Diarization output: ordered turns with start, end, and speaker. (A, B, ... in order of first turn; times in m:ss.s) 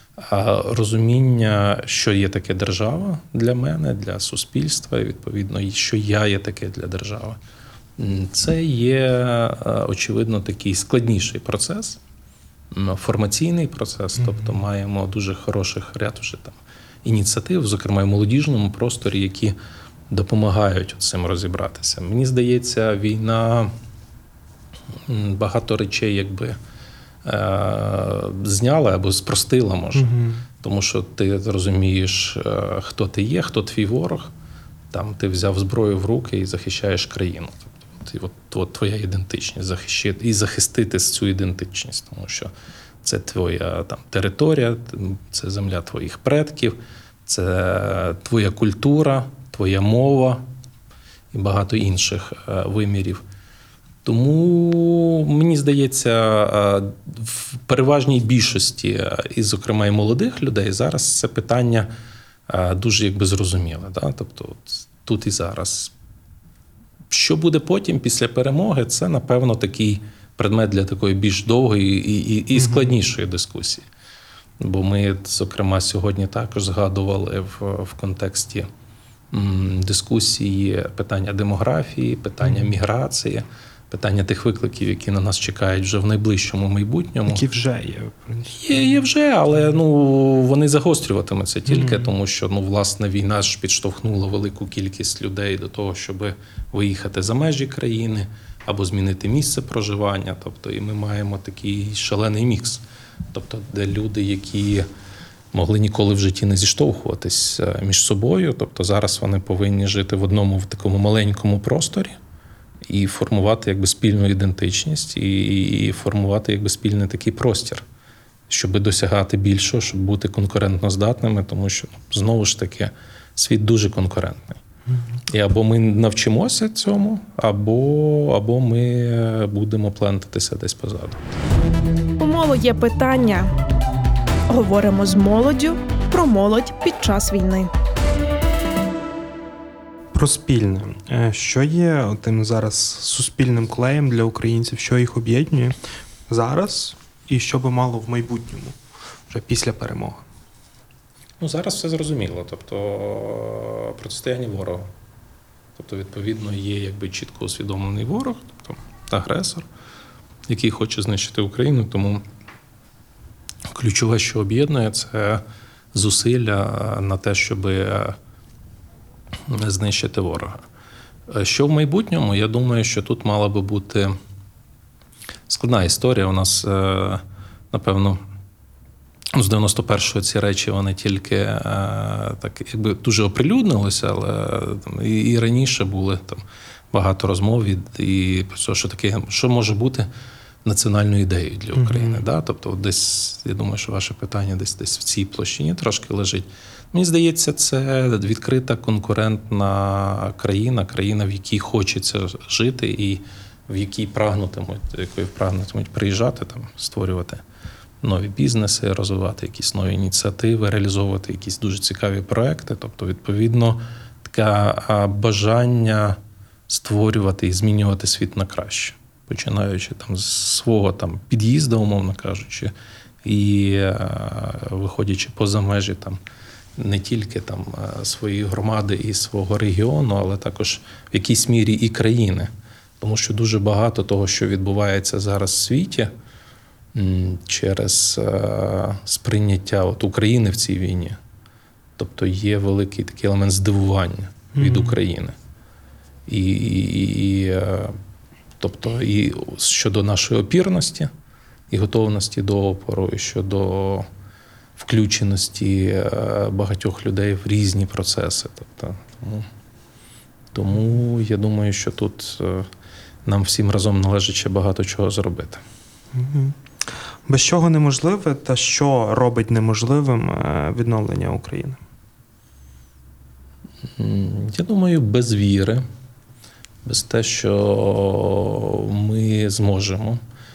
0:00.2-0:07.4 A
0:08.0-0:12.0 A
0:12.7-0:19.6 A
0:20.1-0:23.7 A
0:25.1-0:26.6 A
0:27.2-0:34.3 A
0:29.9-0:30.5 B
0:34.9-0:42.5 A
0:43.0-0:50.4 A
0:51.3-0:53.2 A
0:54.0-1:01.9 A
1:02.5-1:05.9 A
1:07.1-1:13.9 A
1:12.6-1:12.9 B
1:14.6-1:18.7 A
1:19.3-1:27.5 A
1:27.3-1:29.0 B
1:28.6-1:44.9 A
1:31.7-1:32.1 B
1:45.5-1:52.2 A
1:52.8-1:57.8 A
1:58.5-2:04.6 A
2:05.3-2:11.3 A
2:12.2-2:13.5 C
2:14.5-2:17.7 C
2:20.1-2:25.8 B
2:26.3-2:28.8 B
2:29.3-2:30.2 B
2:31.4-2:34.9 A
2:35.8-2:39.7 A
2:40.5-2:42.2 A
2:43.7-2:45.4 A
2:45.9-2:48.2 A
2:49.5-2:50.6 A
2:51.3-2:54.1 A
2:55.5-2:58.2 A
2:59.3-3:10.1 A
3:10.6-3:27.4 A
3:11.8-3:12.2 B
3:28.0-3:42.7 A
3:43.2-3:46.2 A
3:46.8-3:56.1 A
3:56.9-4:01.2 A
4:02.0-4:05.4 A
4:04.5-4:05.0 B
4:06.3-4:08.0 A
4:08.6-4:11.1 A
4:11.7-4:14.1 A
4:14.8-4:19.5 A
4:20.5-4:22.7 A
4:23.2-4:25.6 A
4:26.1-4:26.6 B
4:27.3-4:31.8 B
4:34.0-4:35.8 A
4:36.8-4:40.2 A